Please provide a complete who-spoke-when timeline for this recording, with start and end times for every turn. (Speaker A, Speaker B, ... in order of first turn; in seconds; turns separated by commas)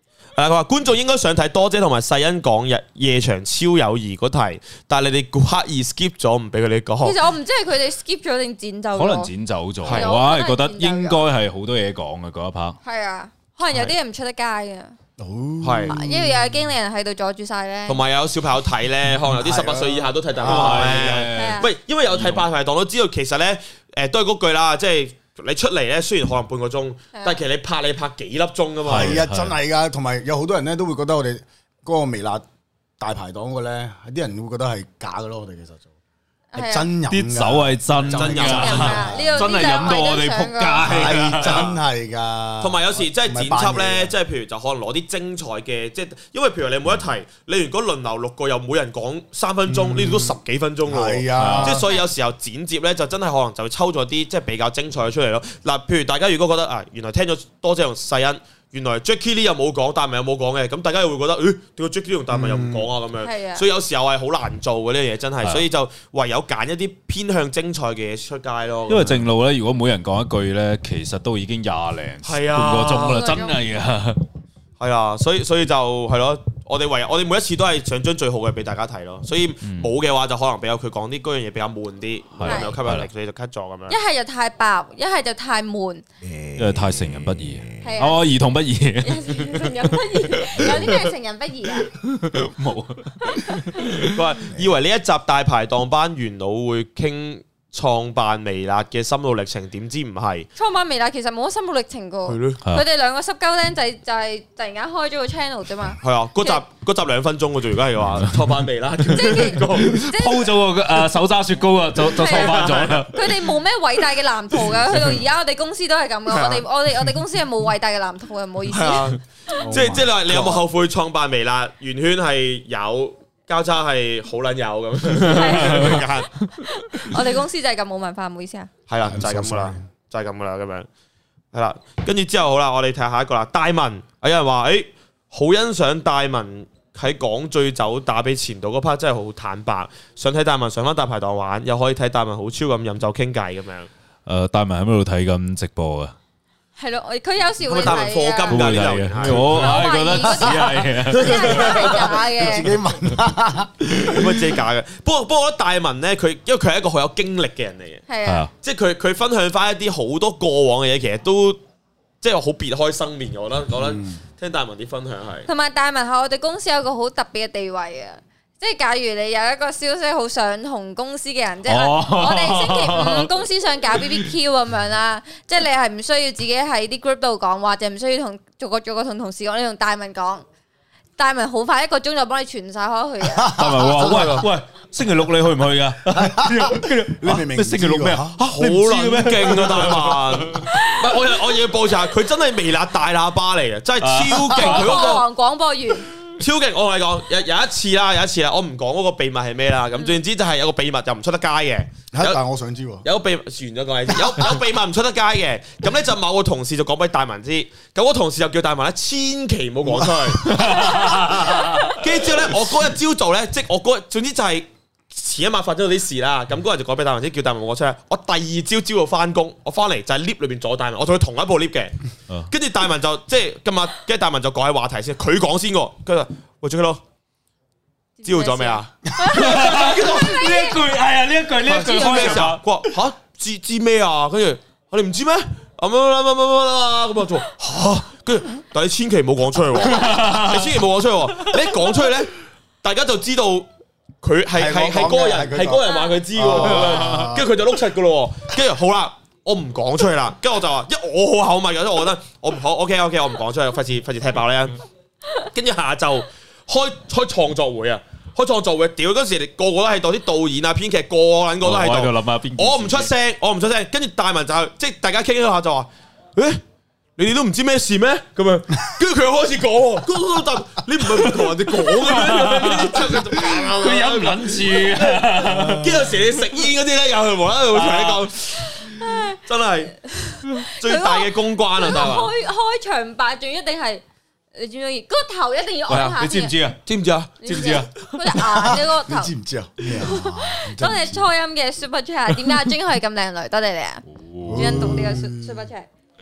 Speaker A: 0.4-7.2, Speaker B: 7.0-9.3, Speaker C: 8.9-12.8, Speaker A: 9.8-10.2, Speaker B: 9.9-11.2, Speaker B: 12.8-14.9, Speaker D: 15.2-16.6, Speaker A: 15.6-16.0, Speaker B: 15.9-18.0, Speaker A: 17.9-29.2, Speaker D: 19.3-21.2, Speaker C: 20.4-22.5, Speaker B: 21.3-21.7, Speaker B: 27.1-27.4, Speaker C: 28.9-29.6, Speaker D: 28.9-32.5, Speaker D: 33.0-35.9, Speaker B: 36.5-36.9, Speaker D: 36.5-39.5, Speaker C: 37.1-41.7, Speaker A: 38.1-39.2, Speaker B: 38.4-41.1, Speaker D: 40.8-44.1, Speaker A: 41.4-41.8, Speaker A: 42.6-69.3, Speaker D: 49.7-51.9, Speaker C: 51.4-51.8, Speaker B: 51.8-52.1, Speaker D: 62.3-62.9, Speaker B: 63.2-63.6, Speaker C: 68.9-74.2, Speaker A: 72.2-73.4, Speaker B: 72.8-73.6, Speaker A: 74.8-84.0, Speaker C: 79.6-79.9, Speaker C: 82.4-83.1, Speaker B: 82.5-82.7, Speaker B: 83.9-86.0, Speaker C: 86.5-91.1, Speaker B: 87.8-88.2, Speaker B: 89.0-91.9, Speaker C: 91.9-94.1, Speaker A: 94.1-100.5, Speaker B: 100.5-106.6, Speaker A: 102.2-102.6, Speaker A: 106.0-110.1, Speaker C: 108.1-108.4, Speaker B: 109.1-110.5, Speaker C: 109.6-113.4, Speaker A: 112.1-113.1, Speaker B: 112.1-119.6, Speaker A: 116.3-116.7, Speaker A: 118.7-126.3, Speaker D: 119.6-120.6, Speaker B: 125.1-128.7, Speaker A: 128.9-130.9, Speaker D: 129.0-129.9, Speaker A: 131.5-143.9, Speaker C: 144.2-146.1, Speaker B: 146.8-148.8, Speaker A: 147.6-149.8, Speaker C: 148.5-152.0, Speaker B: 149.4-152.8, Speaker D: 150.3-150.6, Speaker A: 151.1-152.6, Speaker D: 152.0-154.0, Speaker A: 153.9-158.0, Speaker B: 158.1-158.5, Speaker C: 158.2-158.5, Speaker A: 158.6-161.6, Speaker A: 162.2-165.5, Speaker D: 163.8-164.2, Speaker B: 165.5-180.4, Speaker C: 171.6-173.3, Speaker C: 173.9-174.2, Speaker B: 181.2-183.6, Speaker D: 183.2-184.2, Speaker C: 183.5-190.7, Speaker A: 184.0-184.5, Speaker D: 186.1-188.4, Speaker A: 188.4-195.3, Speaker B: 190.7-191.3, Speaker C: 194.0-195.2, Speaker B: 194.5-196.1, Speaker A: 196.4-202.4, Speaker B: 199.9-200.2, Speaker D: 202.1-203.1, Speaker A: 203.0-211.3, Speaker D: 209.9-210.7, Speaker C: 210.5-211.9, Speaker A: 211.9-227.0, Speaker B: 228.2-230.8, Speaker A: 228.2-230.4, Speaker C: 229.2-232.6, Speaker A: 231.6-243.7, Speaker C: 239.8-240.8, Speaker A: 244.2-254.8, Speaker D: 244.5-247.5, Speaker B: 245.8-246.1, Speaker C: 246.8-247.3, Speaker A: 255.4-266.6, Speaker C: 261.6-263.1, Speaker A: 267.2-278.9, Speaker C: 271.2-276.1, Speaker C: 277.7-278.3, Speaker B: 278.8-279.4, Speaker A: 279.4-280.0, Speaker B: 280.0-286.5, Speaker A: 280.8-282.3, Speaker C: 285.9-286.8, Speaker A: 285.9-286.2, Speaker A: 286.8-287.9, Speaker B: 287.4-289.3, Speaker C: 287.5-288.4, Speaker D: 288.4-291.3, Speaker B: 289.9-295.9, Speaker C: 294.1-295.1, Speaker D: 294.4-295.7